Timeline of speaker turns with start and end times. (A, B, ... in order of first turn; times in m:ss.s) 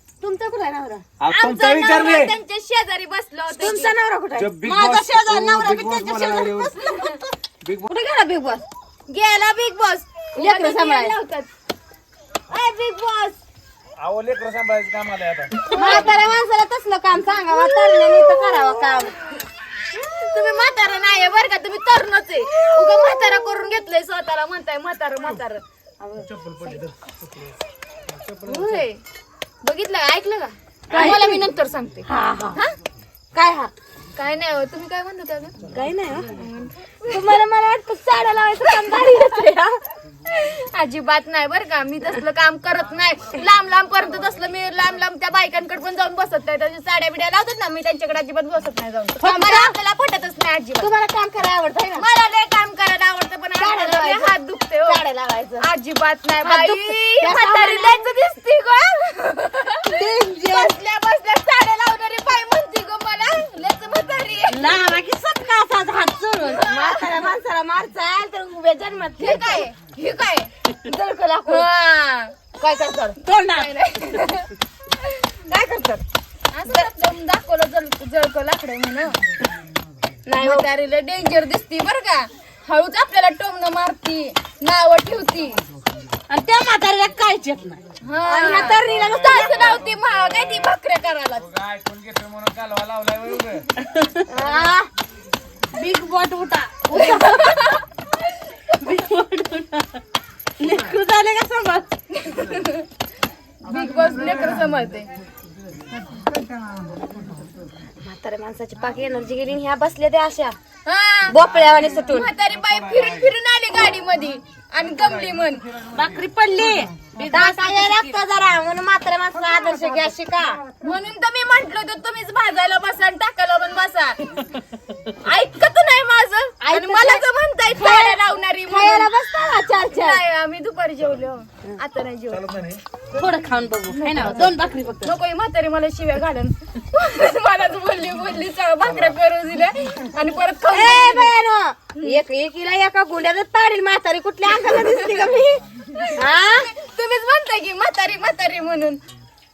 0:00.2-0:01.0 A
0:01.2-0:02.3 B
0:01.3-0:03.9 C
0:03.5-0:04.6 A
0:04.4-0:06.9 B
0:04.6-0:07.0 D
0:06.8-0:07.2 C
0:07.6-0:07.9 B
0:07.8-0:08.6 A
0:09.1-0:11.5 C
0:10.4-0:11.2 A
0:12.5-0:13.4 A
0:14.0-0:15.9 B
0:15.7-0:16.1 C
0:15.7-0:19.2 A
0:18.2-0:18.5 C
0:19.9-0:25.6 C
0:26.0-0:26.3 A
0:26.3-0:27.5 B
0:28.1-0:28.8 B
0:28.4-0:29.0 C
0:29.6-0:32.8 C
0:30.9-0:31.4 A
0:32.1-0:32.6 A
0:33.3-0:33.7 A
0:34.2-0:35.6 C
0:35.7-0:36.3 A
0:36.3-0:37.4 C
0:37.1-0:39.7 A
0:38.6-0:39.5 C
0:40.3-0:50.9 C
0:49.2-0:49.7 A
0:50.8-0:52.1 A
0:52.0-0:55.0 C
0:53.6-0:55.7 A
0:55.6-1:04.8 C
0:56.4-0:58.0 A
0:59.8-1:00.8 A
1:04.5-1:09.7 A
1:06.4-1:07.1 C
1:09.2-1:10.5 C
1:10.8-1:11.6 A
1:11.4-1:12.6 C
1:12.6-1:13.2 A
1:13.2-1:14.2 D
1:13.4-1:14.5 C
1:15.0-1:15.4 C
1:15.5-1:16.0 A
1:16.5-1:19.2 C
1:20.3-1:20.7 A
1:20.4-1:25.6 C
1:26.3-1:27.8 D
1:28.0-1:31.4 C
1:28.2-1:29.8 A
1:28.7-1:29.7 B
1:31.4-1:33.7 B
1:34.3-1:34.9 A
1:35.7-1:37.7 D
1:36.9-1:37.8 C
1:38.7-1:40.0 D
1:40.6-1:41.9 D
1:42.1-1:42.9 C
1:43.6-1:45.1 C
1:48.0-1:50.6 A
1:50.8-1:51.4 C
1:51.3-1:52.3 A
1:51.5-1:52.0 B
1:52.0-1:55.8 C
1:52.6-1:53.3 B
1:54.8-1:56.8 B
1:55.9-1:58.2 D
1:57.3-2:00.6 A
2:00.8-2:04.2 C
2:05.2-2:09.1 C
2:06.6-2:07.2 A
2:07.8-2:10.2 A
2:09.9-2:12.4 C
2:12.3-2:12.8 B
2:13.1-2:15.1 D
2:13.9-2:21.3 C
2:20.7-2:25.6 A
2:24.6-2:25.3 C
2:25.9-2:29.0 C
2:26.2-2:26.7 A